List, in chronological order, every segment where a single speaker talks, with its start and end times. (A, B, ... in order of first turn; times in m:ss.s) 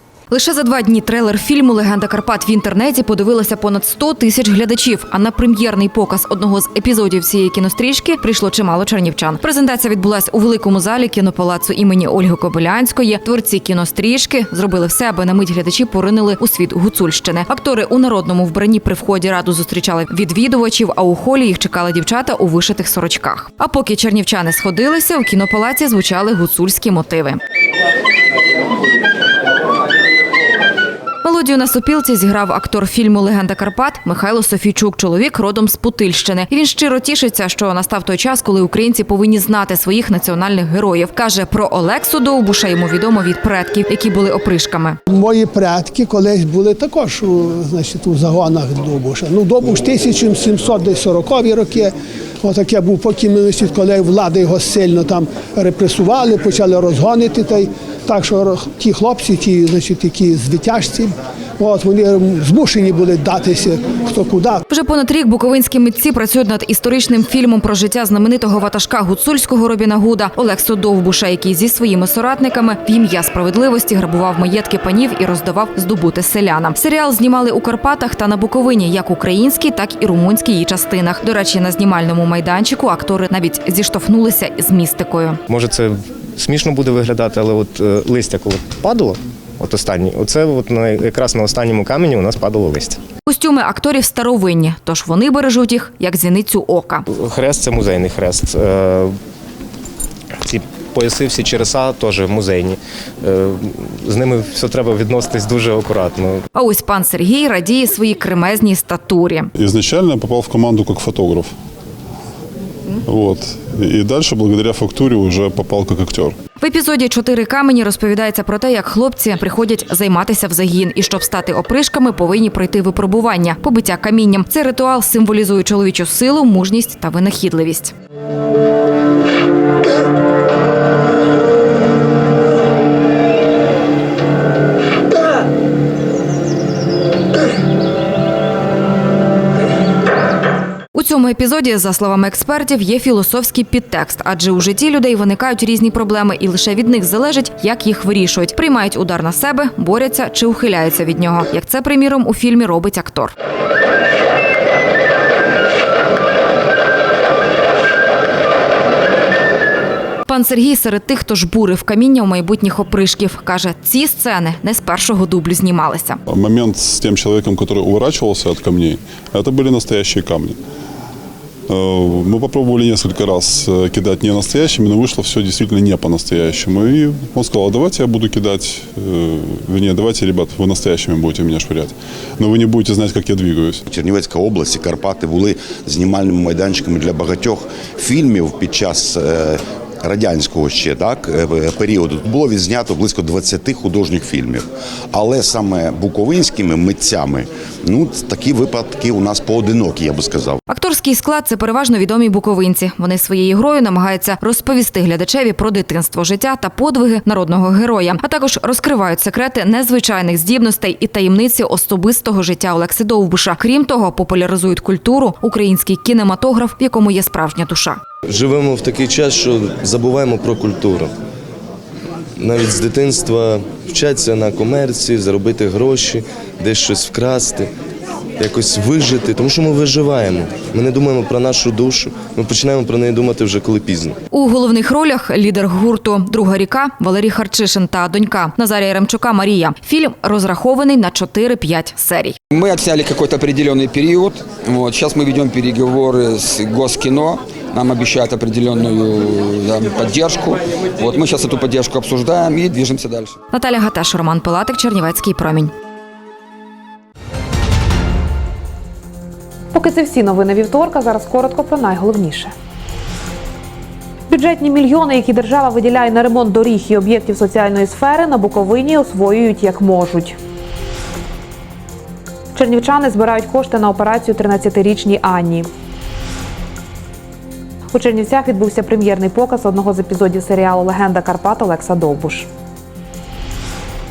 0:00.3-0:27.4 A
0:31.2-0:45.0 A
0:45.1-1:04.6 B
1:04.7-1:25.4 A
1:25.5-1:33.0 C
1:33.2-1:37.0 A
1:37.1-1:39.2 C
1:40.4-1:46.4 C
1:46.5-1:49.5 A
1:49.5-1:51.5 D
1:53.0-1:56.4 D
1:56.6-2:07.9 A
2:20.9-2:33.3 A
2:40.2-2:46.2 A
2:46.3-2:50.6 D
2:51.7-3:03.8 D
3:03.9-3:20.6 E
3:20.7-3:38.0 A
3:38.3-3:41.1 F
3:42.4-3:47.7 F
3:48.4-3:54.2 F
3:54.3-4:02.4 A
4:02.5-4:13.3 G
4:13.5-4:15.7 A
4:19.7-4:22.5 H
4:24.3-4:30.4 H
4:32.5-4:35.7 H
4:37.9-4:42.5 H